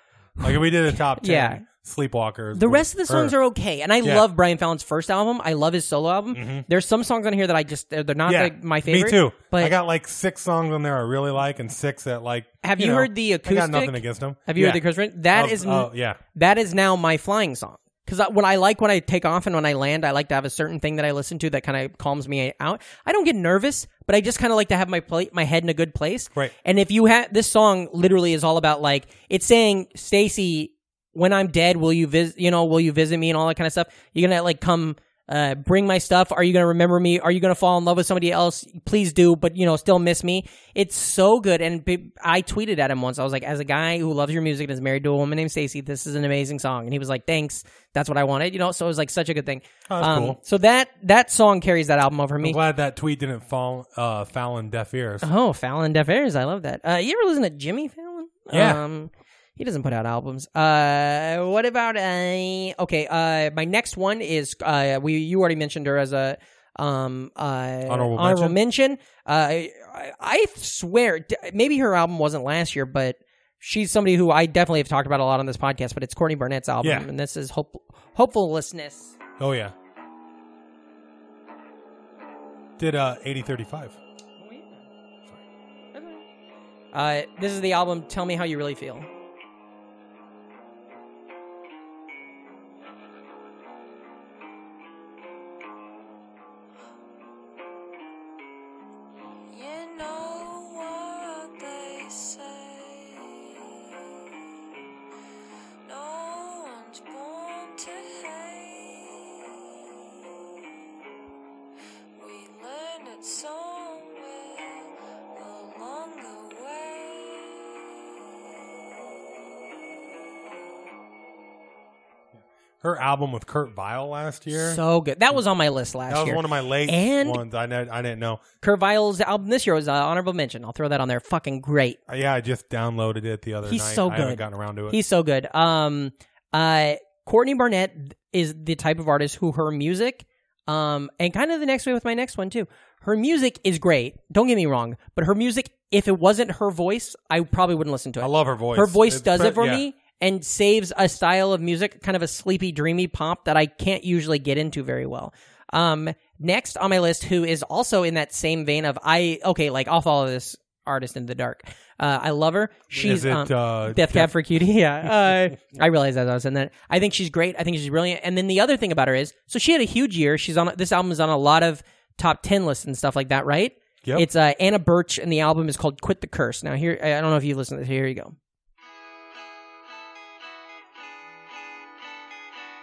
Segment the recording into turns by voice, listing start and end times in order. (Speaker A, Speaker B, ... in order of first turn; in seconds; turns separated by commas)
Speaker A: 0.4-3.4, Speaker B: 0.4-1.6, Speaker B: 2.5-9.8, Speaker A: 6.3-6.7, Speaker A: 8.3-16.2, Speaker B: 12.6-52.6, Speaker A: 49.9-50.4, Speaker A: 52.4-55.3, Speaker B: 55.2-79.1, Speaker A: 58.5-58.8, Speaker A: 67.9-68.6, Speaker A: 76.8-77.1, Speaker A: 79.4-79.8, Speaker A: 82.8-84.0, Speaker B: 84.4-84.9, Speaker B: 85.9-86.2, Speaker B: 86.9-89.1, Speaker C: 99.5-104.1, Speaker C: 105.8-110.3, Speaker C: 112.1-118.5, Speaker A: 122.8-124.8, Speaker B: 124.5-127.4, Speaker A: 126.1-128.4, Speaker B: 128.6-132.0, Speaker A: 132.1-135.0, Speaker B: 133.7-178.4, Speaker A: 148.2-149.9, Speaker A: 162.9-164.4, Speaker A: 165.0-165.3